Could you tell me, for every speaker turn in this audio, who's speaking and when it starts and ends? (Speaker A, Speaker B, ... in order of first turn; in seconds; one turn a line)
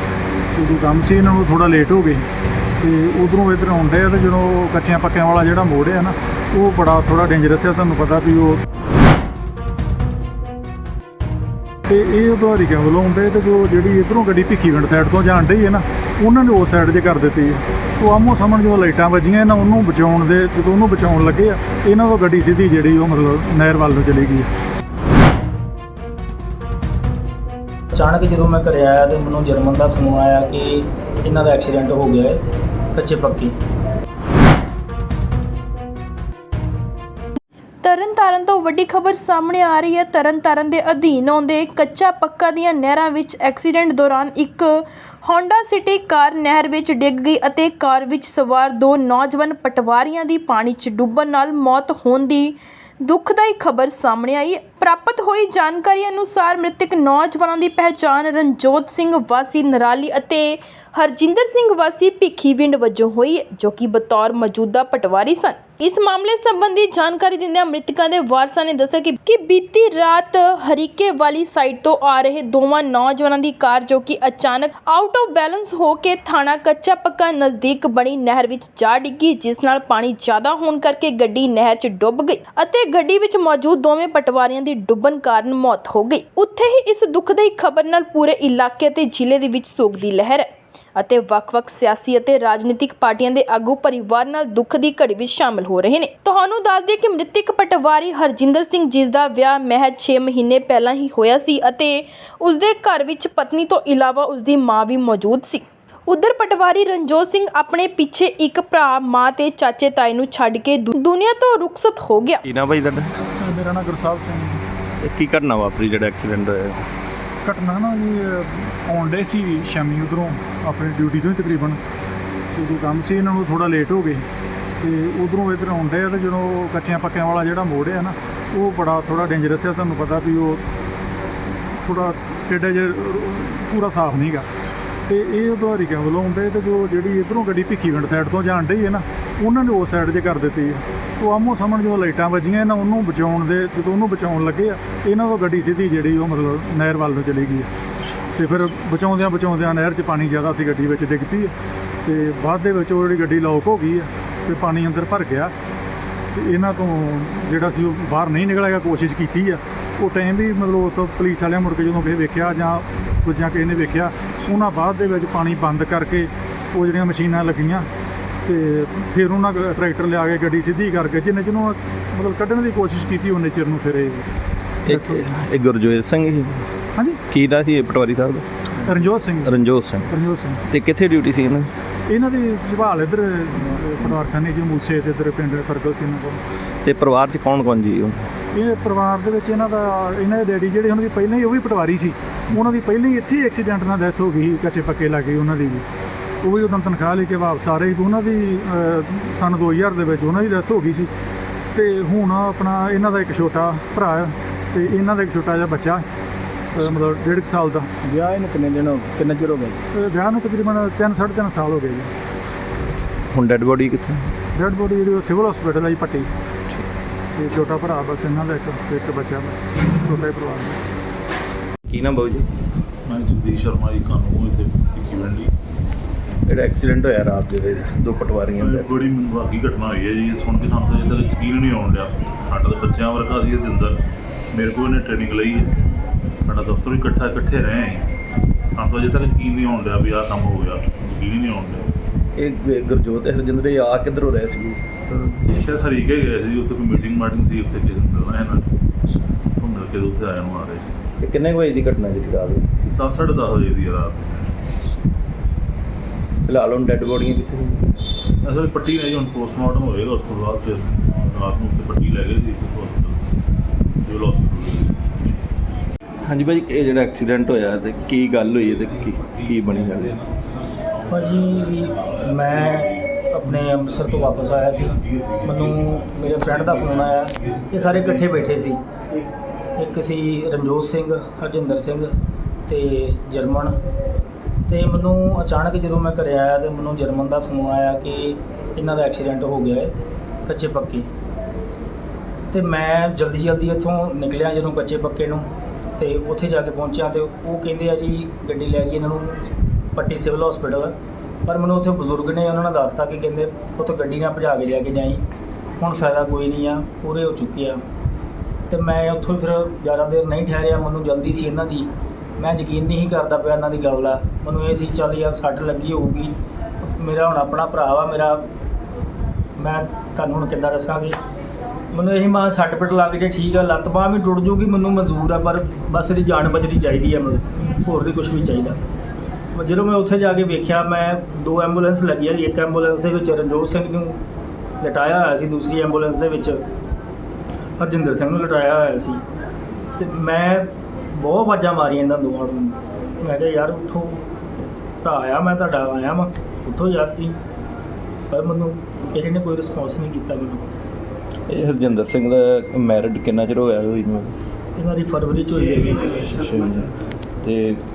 Speaker A: 0.5-2.2
Speaker A: 2.8-8.6
Speaker A: 11.9-24.5
Speaker B: 27.9-32.4
Speaker B: 32.9-33.5
Speaker C: 37.8-112.4
Speaker D: 112.4-113.2
Speaker A: 113.4-114.6
Speaker D: 115.0-116.9
Speaker A: 117.4-121.8
Speaker A: 122.5-124.2
Speaker A: 124.8-130.6
Speaker A: 131.7-134.5
Speaker A: 135.1-147.7
Speaker A: 148.3-155.5
Speaker A: 156.3-167.9
Speaker A: 168.4-174.3
Speaker D: 174.8-176.7
Speaker A: 174.9-175.3
Speaker A: 176.9-177.2
Speaker D: 177.3-178.6
Speaker A: 178.8-179.6
Speaker D: 179.4-180.1
Speaker A: 180.1-180.6
Speaker D: 180.7-181.7
Speaker A: 182.1-186.4
Speaker D: 186.8-188.3
Speaker A: 188.5-195.9
Speaker A: 196.4-201.1
Speaker A: 201.7-206.1
Speaker A: 206.7-207.9
Speaker B: 208.0-209.8
Speaker A: 209.9-212.1
Speaker D: 213.3-214.3
Speaker A: 214.5-216.3
Speaker A: 217.3-220.8
Speaker D: 221.9-222.5
Speaker E: 223.1-225.5
Speaker D: 226.5-228.9
Speaker E: 228.6-234.0
Speaker E: 234.5-235.8
Speaker E: 236.5-238.1
Speaker E: 238.8-241.9
Speaker D: 242.4-245.3
Speaker E: 245.3-248.8
Speaker E: 249.6-250.9
Speaker D: 251.2-252.7
Speaker E: 252.9-254.5
Speaker D: 256.5-258.0
Speaker E: 258.4-263.2
Speaker E: 264.1-265.0
Speaker D: 266.2-270.2
Speaker B: 271.1-279.2
Speaker E: 276.6-277.0
Speaker B: 279.8-282.1
Speaker B: 282.7-283.8
Speaker B: 284.7-289.9
Speaker B: 290.5-291.1
Speaker B: 292.5-299.4
Speaker B: 299.9-300.9
Speaker B: 301.5-305.2
Speaker B: 305.8-307.8
Speaker B: 308.7-318.5
Speaker B: 319.6-321.2
Speaker B: 321.9-328.8
Speaker B: 329.5-334.2
Speaker B: 334.8-336.6
Speaker B: 337.8-339.2
Speaker B: 340.0-344.3
Speaker B: 345.0-347.4
Speaker B: 348.3-350.6
Speaker D: 351.5-354.3
Speaker B: 354.8-356.3
Speaker D: 356.1-356.9
Speaker D: 357.4-357.8